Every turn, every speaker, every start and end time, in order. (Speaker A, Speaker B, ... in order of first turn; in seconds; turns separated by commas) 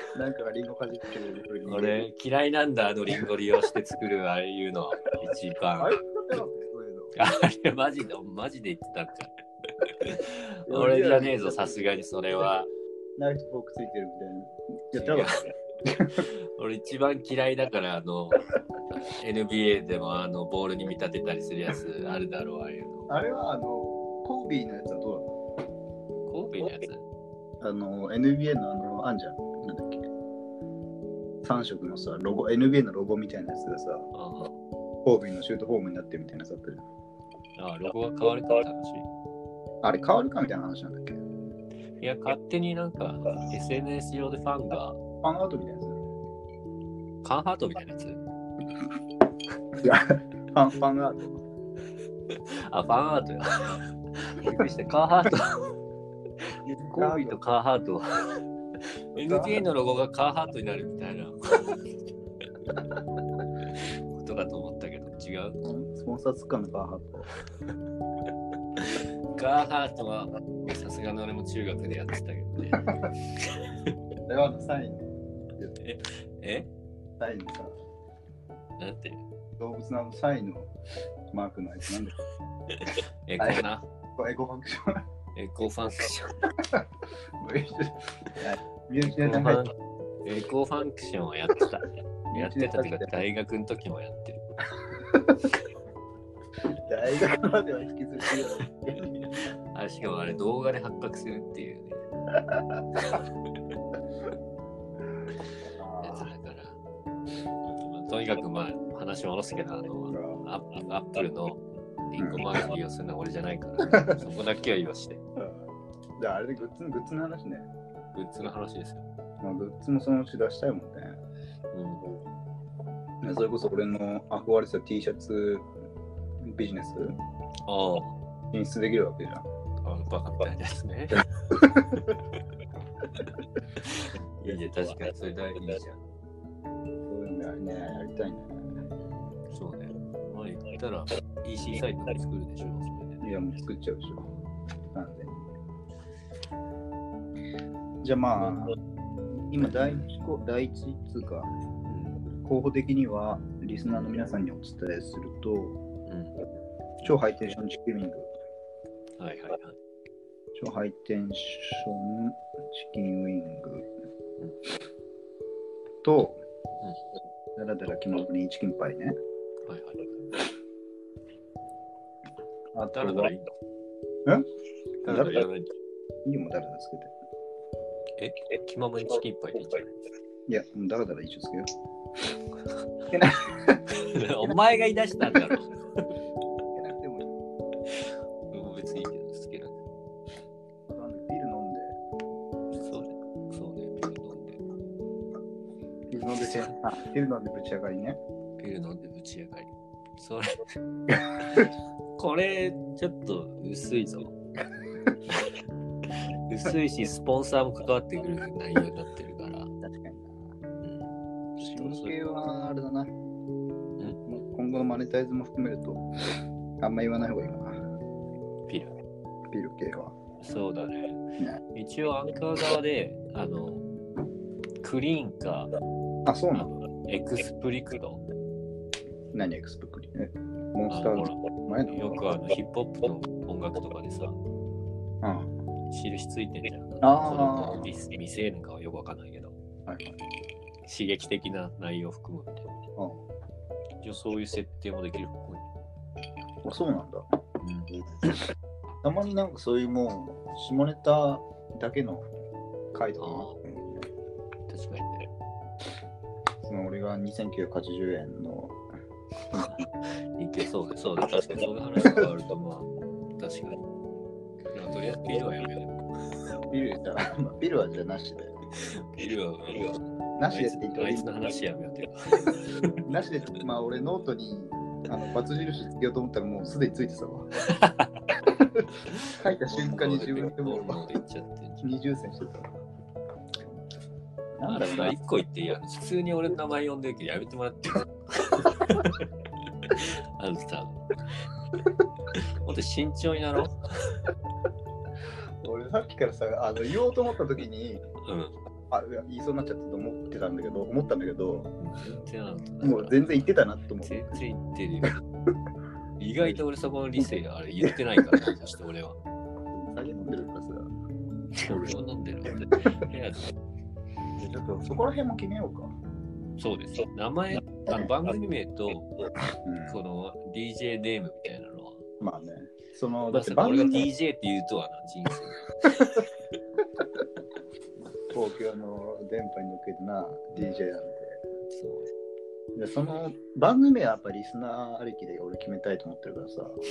Speaker A: 0.1-2.0, Speaker B: 1.7-6.0, Speaker A: 5.8-7.1, Speaker B: 7.2-12.7, Speaker A: 10.7-11.9, Speaker A: 13.2-16.3, Speaker B: 14.9-15.5, Speaker B: 16.1-23.1, Speaker A: 23.1-25.3, Speaker B: 26.3-27.1, Speaker A: 27.6-30.1, Speaker A: 31.4-34.1, Speaker B: 34.1-34.6, Speaker A: 35.0-36.9, Speaker B: 37.6-39.1, Speaker A: 39.8-41.2, Speaker B: 42.0-45.0, Speaker A: 45.2-46.0, Speaker B: 47.2-48.2, Speaker A: 49.8-51.4, Speaker B: 52.3-55.7, Speaker B: 56.5-58.4, Speaker A: 56.7-57.4, Speaker B: 59.1-61.8, Speaker A: 59.2-59.6, Speaker B: 63.8-65.6, Speaker A: 65.6-67.3, Speaker B: 68.8-73.9, Speaker A: 74.3-75.7, Speaker B: 75.8-76.7, Speaker A: 77.2-77.7, Speaker B: 78.8-79.2, Speaker A: 79.6-80.7, Speaker A: 81.3-82.2, Speaker B: 82.7-83.9, Speaker A: 84.2-85.0, Speaker B: 85.3-86.4, Speaker A: 86.6-86.9, Speaker A: 87.4-89.7, Speaker B: 89.0-94.4, Speaker A: 92.3-93.1, Speaker A: 95.0-95.4, Speaker A: 96.7-99.3, Speaker B: 99.3-102.0, Speaker A: 102.4-103.2, Speaker A: 105.7-106.3, Speaker B: 106.0-106.8, Speaker B: 107.6-115.2, Speaker A: 110.1-110.5, Speaker A: 112.2-112.5, Speaker A: 113.9-114.2, Speaker A: 115.4-117.7, Speaker B: 118.1-119.1, Speaker A: 119.4-121.2, Speaker B: 121.7-122.1, Speaker A: 123.2-125.7, Speaker A: 126.4-127.2, Speaker B: 127.7-128.2, Speaker A: 128.5-129.4, Speaker B: 129.8-131.3, Speaker A: 131.5-132.2, Speaker B: 133.8-136.0, Speaker A: 137.1-138.7, Speaker B: 139.5-143.4, Speaker A: 143.2-144.3, Speaker A: 144.9-145.5, Speaker A: 148.0-148.8, Speaker A: 149.3-151.5, Speaker B: 151.9-152.2, Speaker A: 152.4-155.8, Speaker B: 156.1-156.3, Speaker A: 157.0-158.3, Speaker B: 159.2-159.8, Speaker A: 160.6-163.9, Speaker A: 166.0-166.4, Speaker A: 167.6-169.2, Speaker B: 169.7-170.3, Speaker A: 172.7-173.3, Speaker B: 172.9-173.6, Speaker B: 175.0-175.8, Speaker A: 175.1-175.5, Speaker A: 176.2-177.1, Speaker B: 178.2-180.0, Speaker A: 180.5-181.7, Speaker A: 183.1-184.6, Speaker B: 183.9-186.0, Speaker A: 186.7-187.3, Speaker B: 187.9-189.8, Speaker A: 190.9-192.0, Speaker B: 192.8-194.6, Speaker A: 196.1-198.2, Speaker B: 196.4-196.7, Speaker B: 198.6-200.6, Speaker B: 201.4-204.3, Speaker B: 205.3-205.6, Speaker B: 206.1-209.7, Speaker A: 209.8-210.4, Speaker B: 210.8-212.1, Speaker A: 211.6-213.1, Speaker A: 214.2-216.0, Speaker A: 216.8-217.8, Speaker B: 218.7-218.9, Speaker A: 219.5-220.2, Speaker B: 220.4-223.8, Speaker B: 224.8-225.7, Speaker A: 226.2-226.7, Speaker B: 226.6-228.2, Speaker A: 229.3-232.2, Speaker B: 230.9-234.4, Speaker A: 235.2-235.5, Speaker B: 235.9-239.5, Speaker A: 237.0-237.9, Speaker A: 239.9-240.2, Speaker B: 240.9-242.7, Speaker A: 243.0-243.2, Speaker B: 244.0-245.7, Speaker A: 246.6-247.2, Speaker B: 247.6-248.0, Speaker A: 249.0-252.3, Speaker A: 252.9-254.1, Speaker B: 253.2-253.6, Speaker B: 254.7-255.3, Speaker A: 256.7-258.8, Speaker B: 259.5-263.8, Speaker B: 264.7-266.0, Speaker A: 266.7-268.5, Speaker B: 268.8-273.0, Speaker A: 270.4-271.3, Speaker A: 273.0-277.5, Speaker B: 277.6-278.2, Speaker A: 278.4-281.0, Speaker B: 279.1-281.9, Speaker A: 281.8-282.7, Speaker A: 284.6-285.1, Speaker B: 284.7-289.3, Speaker B: 289.8-291.0, Speaker B: 292.3-294.2, Speaker A: 295.6-298.1, Speaker B: 298.2-298.5, Speaker A: 298.9-301.7, Speaker B: 301.8-303.4, Speaker A: 302.8-304.4, Speaker B: 304.0-305.2, Speaker B: 306.2-309.2, Speaker A: 307.8-308.5, Speaker A: 309.7-310.9, Speaker B: 311.6-313.5, Speaker A: 311.6-312.0, Speaker A: 314.4-315.9, Speaker B: 316.6-319.1, Speaker A: 317.5-318.1, Speaker A: 319.6-320.0, Speaker B: 319.9-322.0, Speaker A: 322.2-324.1, Speaker B: 323.3-326.2, Speaker A: 328.3-331.4, Speaker B: 331.7-332.1, Speaker A: 332.8-336.8